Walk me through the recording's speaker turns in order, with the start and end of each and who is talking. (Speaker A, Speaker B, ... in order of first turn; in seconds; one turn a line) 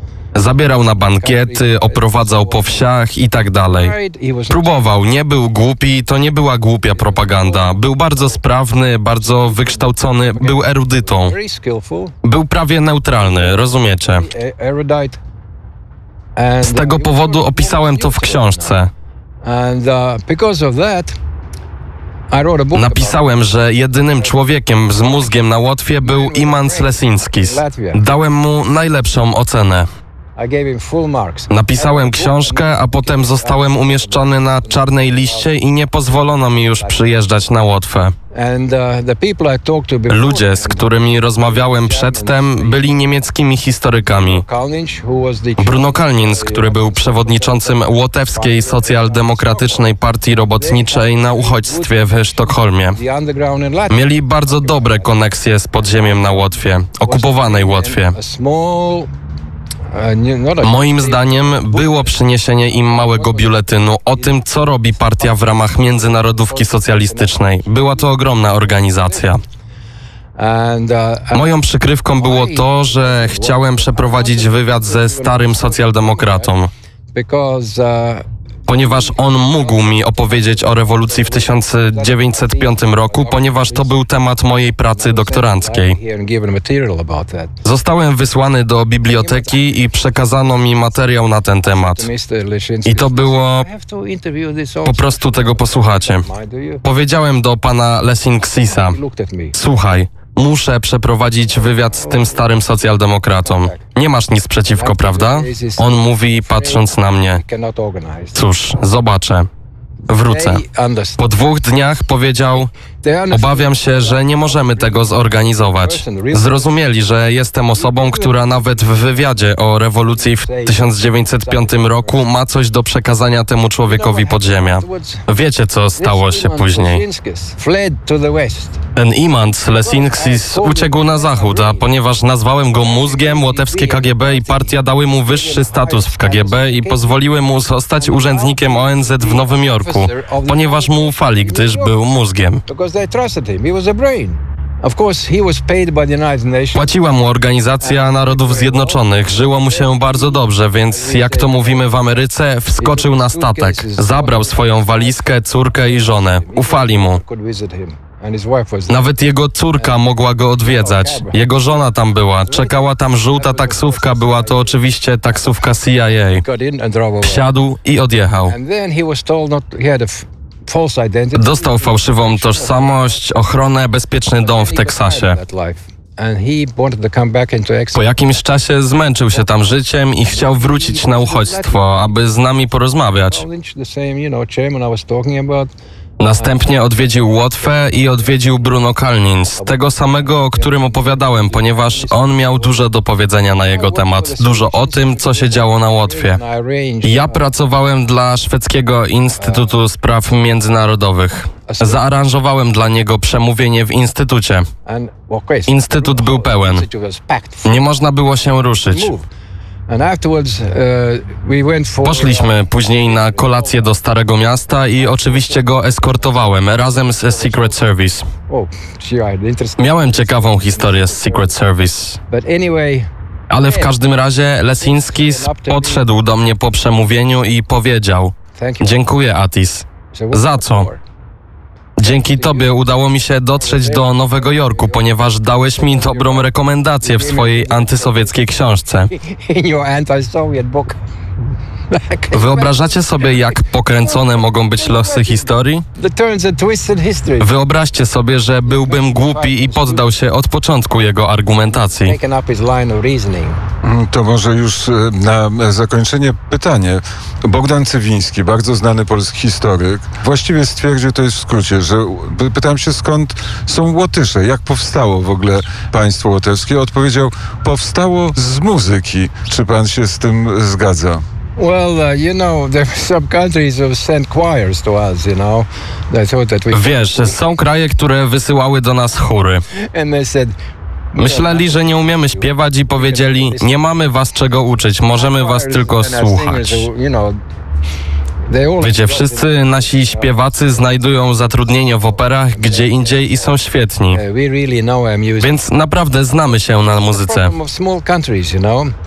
Speaker A: 0.3-3.9
Speaker B: 0.8-2.8
Speaker B: 3.6-4.8
Speaker A: 4.5-11.3
Speaker B: 6.8-8.4
Speaker B: 9.1-12.2
Speaker A: 12.2-14.2
Speaker B: 13.2-15.2
Speaker B: 16.4-18.8
Speaker A: 16.6-18.9
Speaker B: 19.4-21.2
Speaker B: 22.3-23.2
Speaker A: 22.7-29.9
Speaker B: 24.1-25.4
Speaker B: 26.0-28.0
Speaker B: 30.4-35.5
Speaker A: 31.5-38.1
Speaker B: 36.3-37.2
Speaker B: 38.3-42.9
Speaker A: 40.1-44.4
Speaker B: 44.0-49.9
Speaker A: 45.6-53.0
Speaker B: 50.6-55.1
Speaker A: 53.9-58.1
Speaker B: 55.8-59.1
Speaker B: 59.9-69.4
Speaker A: 60.6-69.4
Speaker B: 70.4-71.5
Speaker A: 71.3-76.7
Speaker B: 72.2-76.5
Speaker B: 77.1-84.0
Speaker A: 78.7-86.0
Speaker B: 84.9-87.5
Speaker A: 87.6-92.1
Speaker B: 89.1-90.0
Speaker B: 91.6-96.8
Speaker A: 92.8-93.7
Speaker A: 94.8-96.2
Speaker A: 96.8-99.0
Speaker B: 98.6-99.6
Speaker A: 99.5-107.4
Speaker B: 101.5-102.6
Speaker B: 103.4-103.8
Speaker B: 104.7-108.4
Speaker A: 108.3-109.5
Speaker A: 110.1-110.6
Speaker B: 110.1-111.3
Speaker A: 111.2-112.7
Speaker B: 113.0-116.8
Speaker A: 113.3-127.0
Speaker B: 117.7-119.4
Speaker B: 120.0-122.2
Speaker B: 123.8-125.2
Speaker B: 126.0-128.8
Speaker A: 128.9-142.6
Speaker B: 129.7-131.9
Speaker B: 132.7-137.2
Speaker B: 137.9-142.0
Speaker B: 142.7-147.0
Speaker A: 146.7-157.2
Speaker B: 147.8-152.2
Speaker B: 152.8-159.1
Speaker A: 158.9-166.4
Speaker B: 159.8-161.5
Speaker B: 162.4-165.6
Speaker B: 166.1-167.4
Speaker A: 167.2-168.5
Speaker B: 168.4-173.2
Speaker A: 171.3-175.4
Speaker B: 174.4-178.1
Speaker A: 177.9-183.4
Speaker B: 180.2-182.3
Speaker B: 183.2-185.7
Speaker A: 186.2-196.4
Speaker B: 186.3-188.8
Speaker B: 189.6-192.8
Speaker B: 193.7-197.5
Speaker A: 197.0-204.7
Speaker B: 199.3-199.8
Speaker B: 201.7-202.0
Speaker B: 204.8-207.8
Speaker A: 205.7-206.8
Speaker A: 207.6-209.1
Speaker B: 208.8-209.2
Speaker B: 209.9-214.0
Speaker A: 212.0-218.2
Speaker B: 214.9-217.8
Speaker B: 218.5-221.5
Speaker A: 219.8-222.2
Speaker B: 222.3-223.9
Speaker A: 223.5-230.9
Speaker B: 224.8-226.1
Speaker B: 228.5-229.1
Speaker B: 230.1-231.0
Speaker A: 232.0-239.1
Speaker B: 232.0-232.9
Speaker B: 233.4-235.0
Speaker B: 235.7-236.5
Speaker B: 237.0-241.0
Speaker B: 241.9-247.5
Speaker A: 242.3-245.8
Speaker A: 247.4-252.2
Speaker B: 248.7-250.1
Speaker B: 251.7-253.6
Speaker C: 253.8-271.2
Speaker B: 271.6-277.4
Speaker A: 276.7-279.6
Speaker B: 279.7-280.6
Speaker B: 281.1-283.8
Speaker A: 281.2-286.9
Speaker B: 285.1-287.4
Speaker B: 288.4-290.8
Speaker A: 288.8-294.2
Speaker B: 292.1-293.6
Speaker B: 294.1-295.6
Speaker A: 295.4-297.5
Speaker B: 296.8-298.9